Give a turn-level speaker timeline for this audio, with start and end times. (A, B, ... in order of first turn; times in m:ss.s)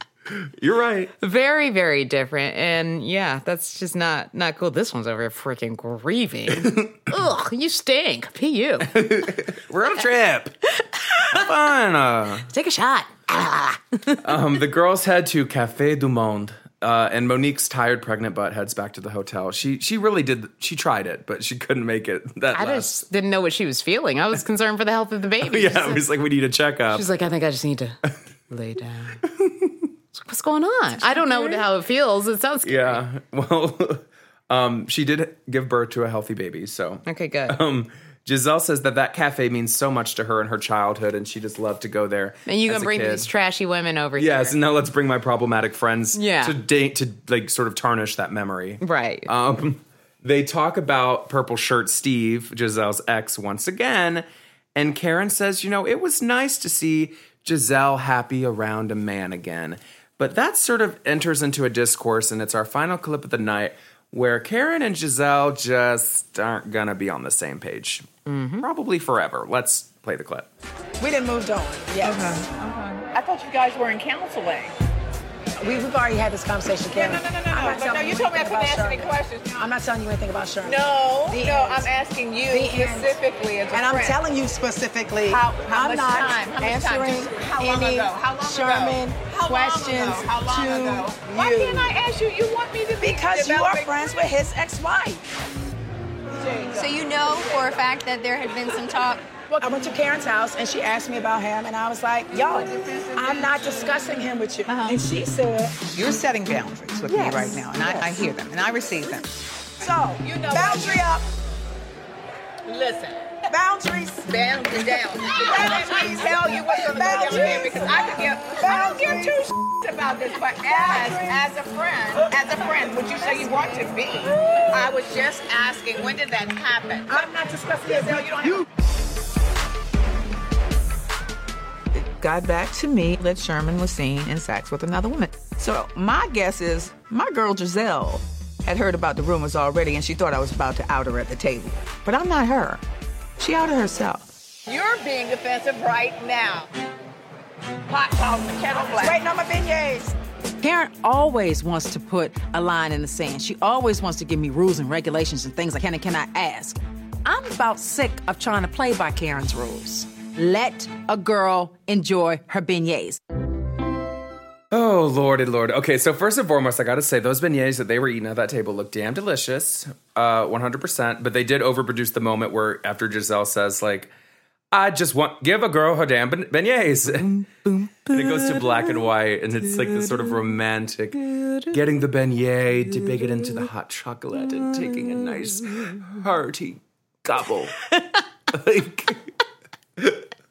0:00.3-0:01.1 A
0:01.2-0:09.3 B
0:06.6-0:06.9 A
0:08.9-0:10.5 A
0:10.8-0:11.4 B
0:11.3-0:12.5 A
0:12.4-0:14.3 B
0:14.2-0:23.0 A
0:22.5-0:26.0 B
0:25.4-0:27.0 A
0:26.9-0:29.2 B
0:29.3-0:29.8 A
0:30.1-0:33.0 B
0:31.1-0:31.6 A
0:32.6-0:43.3 A
0:37.0-0:37.6 B
0:42.4-0:44.6 B
0:44.2-1:08.1 A
0:46.1-0:46.6 B
0:48.8-0:49.3 B
1:08.2-1:08.6 B
1:08.6-1:10.5 A
1:11.0-1:13.0 C
1:11.9-1:12.5 D
1:13.1-1:14.7 D
1:15.6-1:21.9 C
1:16.9-1:19.7 D
1:20.6-1:24.2 D
1:22.5-1:23.2 C
1:23.7-1:31.9 C
1:25.2-1:34.2 D
1:33.0-1:35.2 C
1:36.4-1:36.9 D
1:36.7-1:39.2 E
1:39.5-1:45.9 C
1:42.3-1:43.6 D
1:45.9-1:49.3 D
1:47.1-1:48.2 C
1:49.8-1:51.2 C
1:50.2-1:51.2 D
1:52.7-1:53.2 D
1:53.5-1:54.3 C
1:54.2-2:08.6 D
1:55.3-1:59.5 C
2:00.7-2:01.4 C
2:03.2-2:03.5 C
2:07.1-2:08.6 C
2:11.9-2:21.9 D
2:22.4-2:22.6 B
2:23.4-2:26.7 D
2:27.9-2:29.3 D
2:28.7-2:30.1 C
2:30.6-2:43.2 F
2:44.7-2:54.1 A
2:54.7-2:57.3 A
2:57.1-3:00.4 B
2:58.1-3:07.8 A
3:01.2-3:01.8 B
3:02.9-3:03.6 B
3:04.4-3:06.0 B
3:07.9-3:08.2 B
3:08.5-3:09.2 A